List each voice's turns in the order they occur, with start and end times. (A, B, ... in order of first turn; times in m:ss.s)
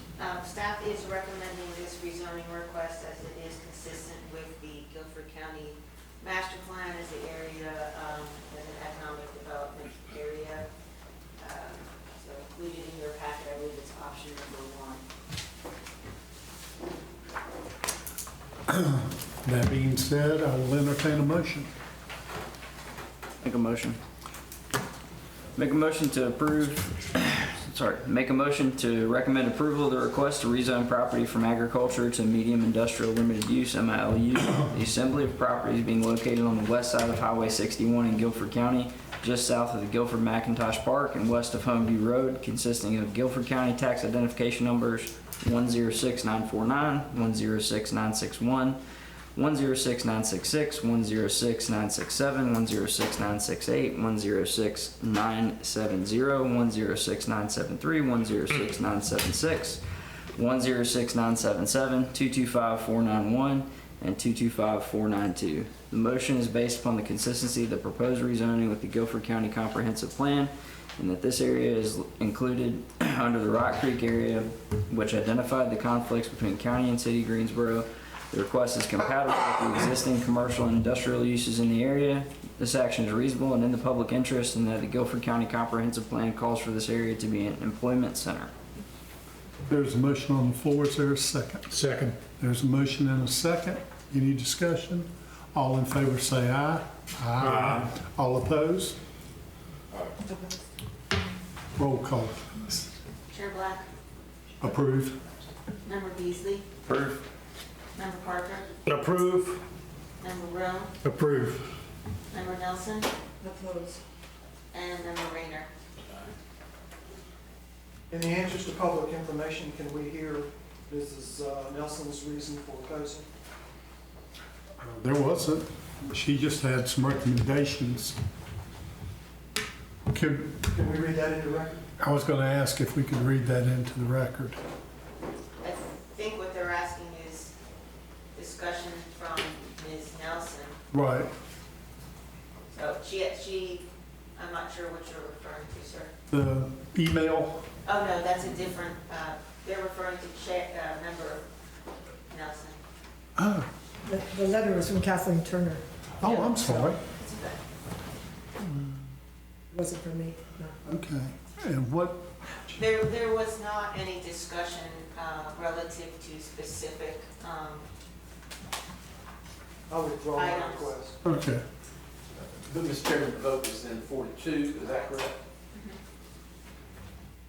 0:00.2-0:10.7 A
0:11.4-0:15.0 A
0:18.7-0:21.7 B
0:23.4-0:24.0 C
0:25.6-0:48.8 C
0:49.4-0:59.8 C
1:00.4-1:28.5 C
1:29.7-1:31.7 B
1:31.7-1:32.2 D
1:32.4-1:39.0 B
1:37.4-1:37.9 D
1:41.8-1:42.8 B
1:43.3-1:43.9 A
1:44.6-1:45.2 B
1:45.9-1:46.7 A
1:46.9-1:47.2 C
1:48.0-1:48.7 A
1:48.9-1:49.5 D
1:50.2-1:50.9 A
1:51.0-1:51.6 D
1:52.3-1:53.1 A
1:53.4-1:54.0 E
1:54.7-1:55.7 A
1:58.1-2:03.3 F
2:04.8-2:08.2 B
2:10.1-2:10.6 B
2:10.7-2:11.8 F
2:12.0-2:14.6 B
2:15.6-2:17.5 A
2:18.3-2:20.8 A
2:20.9-2:21.3 B
2:22.7-2:26.1 A
2:26.3-2:27.6 B
2:27.8-2:31.5 A
2:32.3-2:32.8 A
2:33.4-2:33.7 B
2:34.0-2:35.8 E
2:36.2-2:37.0 B
2:36.2-2:37.6 A
2:39.7-2:40.8 E
2:40.8-2:42.4 B
2:42.7-2:47.8 A
2:49.9-2:51.2 F
2:50.4-2:51.0 A
2:51.2-2:51.6 B
2:52.6-2:55.4 G
2:54.8-2:55.2 A
2:55.7-2:56.0 A